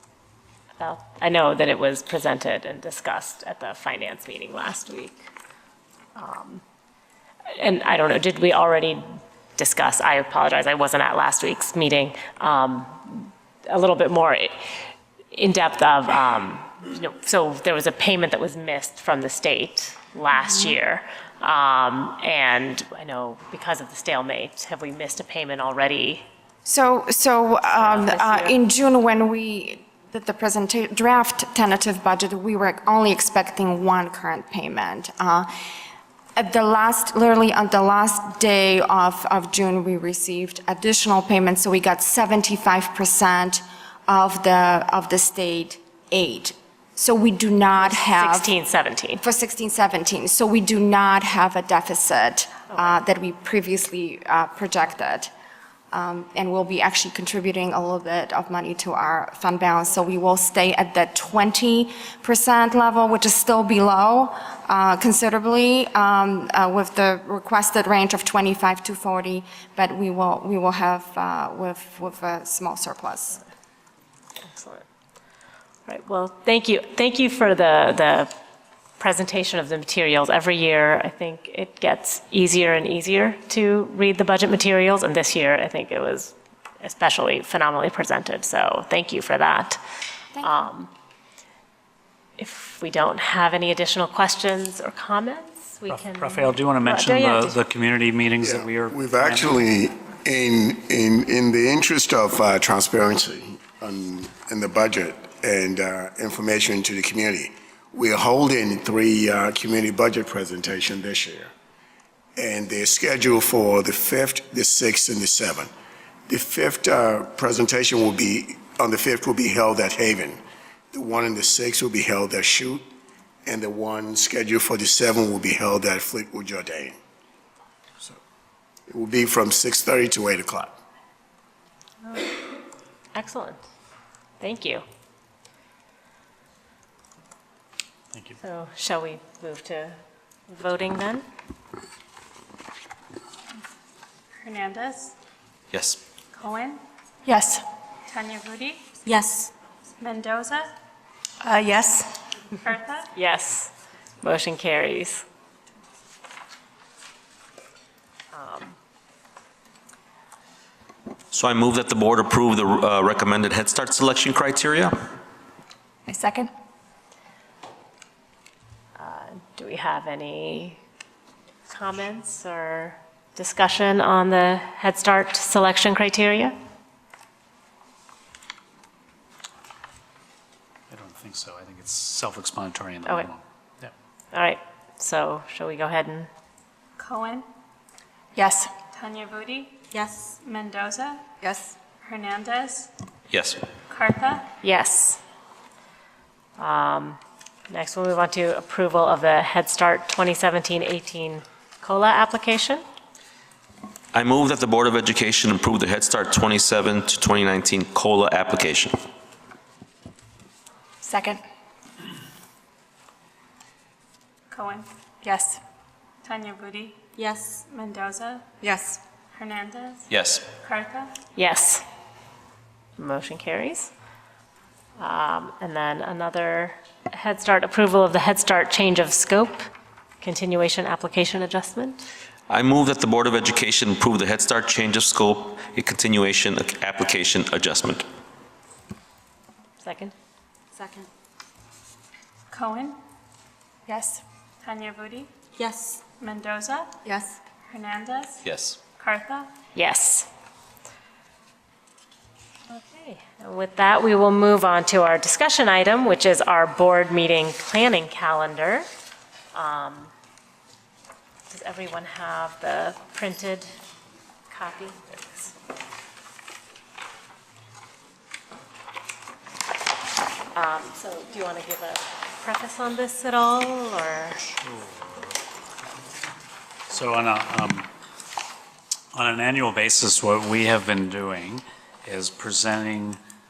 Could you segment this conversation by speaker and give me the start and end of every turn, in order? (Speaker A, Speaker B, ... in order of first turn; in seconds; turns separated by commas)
Speaker A: 0.8-5.3, Speaker A: 6.2-6.6, Speaker A: 7.5-9.1, Speaker A: 9.6-14.6, Speaker A: 15.3-26.2, Speaker B: 26.6-35.5, Speaker A: 27.8-28.5, Speaker B: 36.4-48.5, Speaker A: 47.8-49.2, Speaker B: 49.2-55.3, Speaker B: 55.9-73.4, Speaker A: 74.4-74.9, Speaker A: 75.9-78.3, Speaker A: 79.0-89.8, Speaker A: 90.4-90.9, Speaker A: 92.4-97.6, Speaker C: 95.9-99.6, Speaker D: 98.4-111.5, Speaker D: 112.3-115.7, Speaker D: 116.3-120.4, Speaker D: 120.9-122.8, Speaker D: 123.5-127.0, Speaker D: 128.9-130.7, Speaker A: 133.1-133.6, Speaker A: 134.4-134.8, Speaker A: 138.4-140.0, Speaker A: 140.5-141.2, Speaker E: 144.4-145.1, Speaker F: 145.7-146.0, Speaker E: 146.3-146.8, Speaker E: 148.1-148.9, Speaker G: 149.1-149.5, Speaker E: 150.0-150.7, Speaker E: 152.6-153.1, Speaker A: 153.1-153.7, Speaker A: 154.2-155.2, Speaker A: 158.3-158.7, Speaker F: 161.3-164.9, Speaker A: 169.0-170.8, Speaker A: 171.7-176.6, Speaker C: 180.9-183.9, Speaker A: 184.3-186.3, Speaker E: 187.0-187.4, Speaker E: 188.9-189.8, Speaker G: 189.9-190.3, Speaker E: 190.4-191.2, Speaker E: 192.0-192.9, Speaker F: 193.3-193.6, Speaker E: 193.9-194.4, Speaker A: 194.6-195.2, Speaker A: 196.6-197.2, Speaker A: 197.7-202.8, Speaker F: 204.1-208.9, Speaker E: 214.5-214.8, Speaker E: 216.2-217.0, Speaker G: 217.2-217.6, Speaker E: 217.7-218.4, Speaker E: 219.3-220.0, Speaker F: 220.1-220.4, Speaker E: 220.6-221.1, Speaker A: 221.3-221.8, Speaker A: 223.0-223.9, Speaker A: 225.0-229.6, Speaker A: 230.2-232.0, Speaker F: 232.5-238.0, Speaker A: 239.8-240.1, Speaker G: 240.8-241.1, Speaker E: 242.5-243.0, Speaker E: 244.6-245.3, Speaker G: 245.5-246.0, Speaker E: 246.2-246.9, Speaker G: 247.1-247.3, Speaker E: 247.7-248.4, Speaker F: 248.4-248.8, Speaker E: 249.0-249.5, Speaker A: 249.7-250.3, Speaker A: 252.7-258.9, Speaker A: 259.5-260.1, Speaker A: 261.5-263.7, Speaker A: 264.5-265.5, Speaker A: 270.5-274.4, Speaker C: 274.5-275.3, Speaker C: 276.9-277.9, Speaker C: 279.1-283.2